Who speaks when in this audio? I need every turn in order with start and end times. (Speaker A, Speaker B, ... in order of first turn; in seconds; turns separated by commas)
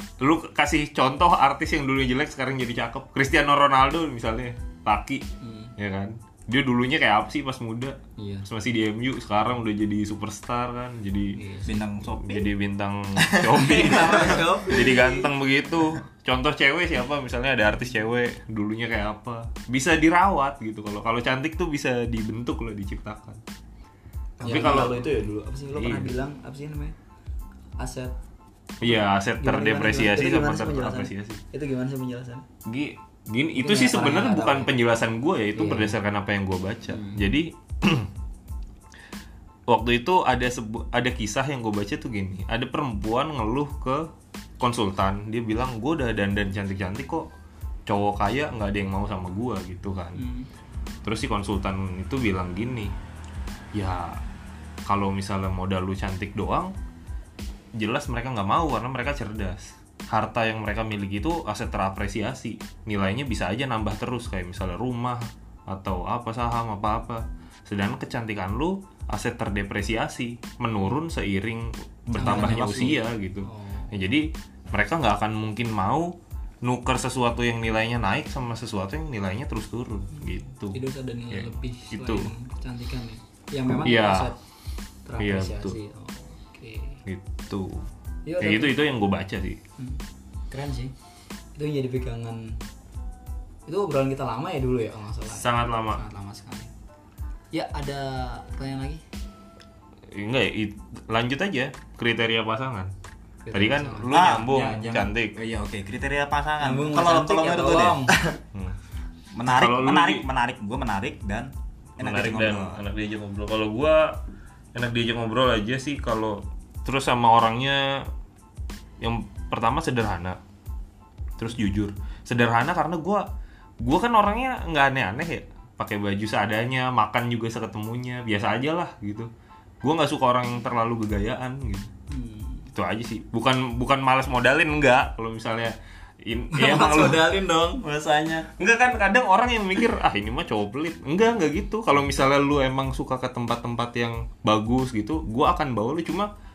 Speaker A: 0.2-5.2, Speaker B: 5.4-5.7, Speaker A: 5.8-11.4, Speaker B: 8.2-8.5, Speaker B: 11.3-11.8, Speaker C: 11.6-12.5, Speaker A: 12.0-23.4, Speaker B: 13.5-15.3, Speaker A: 24.4-25.1, Speaker B: 24.4-26.9, Speaker A: 25.7-26.1, Speaker B: 27.8-28.1, Speaker A: 28.8-31.4, Speaker B: 28.9-32.5, Speaker A: 32.6-38.1, Speaker B: 33.5-34.7, Speaker B: 35.5-36.0, Speaker B: 36.9-37.2, Speaker A: 39.7-44.1, Speaker A: 44.6-47.3, Speaker A: 47.9-50.2, Speaker B: 50.1-50.5, Speaker A: 51.0-52.9, Speaker A: 53.7-54.2, Speaker A: 54.9-56.7, Speaker A: 57.8-82.3, Speaker B: 72.1-74.0, Speaker C: 72.2-72.9, Speaker B: 80.2-84.4, Speaker A: 83.8-84.3, Speaker B: 85.1-87.0, Speaker A: 85.2-85.8, Speaker A: 87.1-87.8, Speaker B: 88.3-88.8, Speaker A: 88.4-89.6, Speaker B: 89.8-90.9, Speaker B: 91.5-92.6, Speaker B: 93.7-96.7, Speaker A: 95.3-96.0, Speaker B: 97.5-99.0, Speaker A: 100.1-102.9, Speaker B: 103.5-104.2, Speaker A: 103.5-105.3, Speaker C: 104.1-108.1, Speaker B: 106.6-108.2, Speaker C: 109.3-112.8, Speaker A: 109.5-110.3, Speaker A: 112.0-114.2, Speaker A: 114.7-118.1, Speaker A: 119.0-120.4, Speaker A: 121.4-123.3, Speaker A: 123.8-129.3, Speaker A: 129.8-131.9, Speaker B: 132.1-132.7, Speaker A: 132.7-137.3, Speaker B: 136.5-138.5, Speaker A: 138.6-146.3